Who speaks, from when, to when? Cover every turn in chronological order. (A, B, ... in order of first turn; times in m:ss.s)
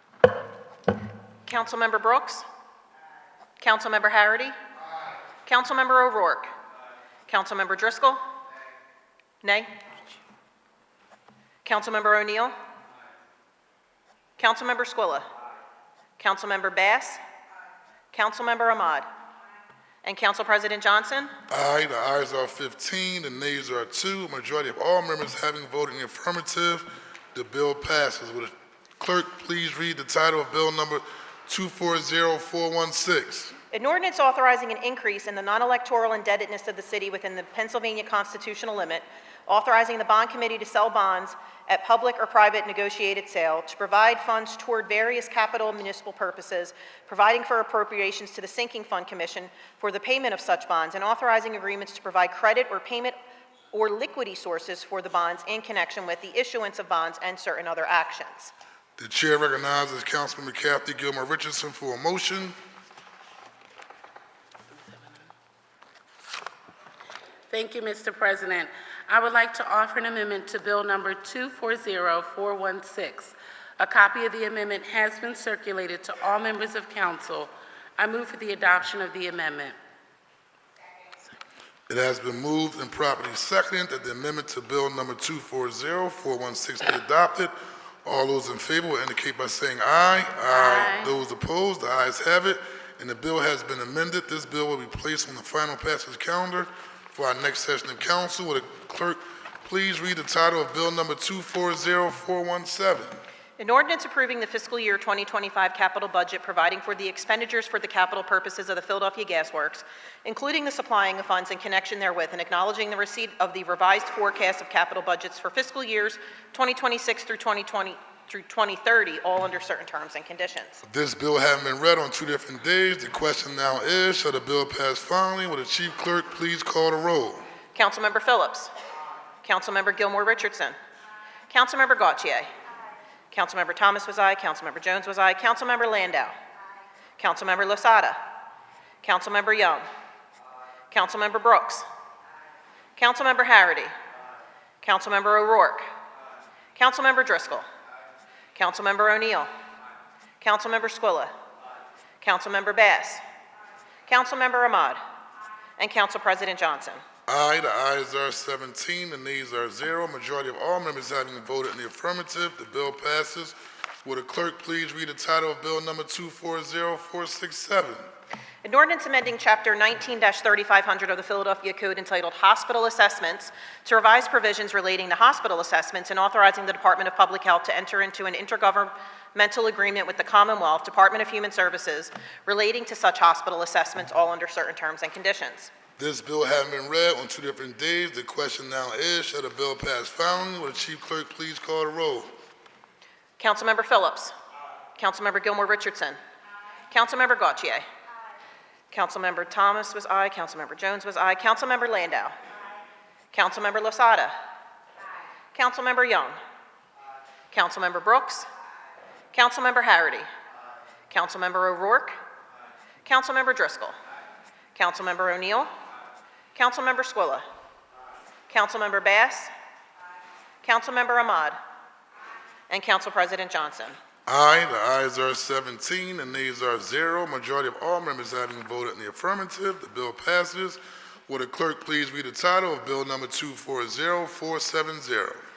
0:01.5-0:02.4 A
0:03.6-0:04.6 A
0:05.4-0:06.5 A
0:07.3-0:08.2 A
0:09.4-0:09.7 A
0:11.6-0:12.5 A
0:14.4-0:15.2 A
0:16.2-0:17.2 A
0:18.1-0:19.0 A
0:20.0-0:21.3 A
0:21.5-0:33.5 B
0:33.7-0:53.1 A
0:53.7-0:58.5 A
0:59.0-1:02.5 B
1:07.5-1:19.7 C
1:21.9-1:27.5 B
1:28.0-1:43.2 B
1:30.5-1:31.1 C
1:43.6-2:00.8 A
2:00.8-2:07.4 B
2:07.7-2:08.7 A
2:09.4-2:10.8 A
2:11.5-2:12.5 A
2:13.3-2:16.3 A
2:17.2-2:18.2 A
2:19.0-2:19.9 A
2:20.9-2:21.8 A
2:23.0-2:23.9 A
2:24.8-2:25.9 A
2:26.8-2:27.6 A
2:28.5-2:29.5 A
2:30.4-2:31.3 A
2:32.2-2:33.2 A
2:34.1-2:35.0 A
2:35.8-2:37.0 A
2:37.3-2:48.0 B
2:48.6-3:05.7 A
3:06.0-3:12.3 B
3:13.4-3:14.3 A
3:15.0-3:16.2 A
3:16.9-3:17.8 A
3:18.9-3:22.3 A
3:23.3-3:24.3 A
3:25.5-3:26.4 A
3:27.5-3:28.5 A
3:29.3-3:30.3 A
3:31.1-3:32.2 A
3:33.0-3:34.0 A
3:34.8-3:35.7 A
3:36.5-3:37.4 A
3:38.5-3:39.5 A
3:40.6-3:41.6 A
3:42.7-3:44.0 A
3:44.3-3:55.4 B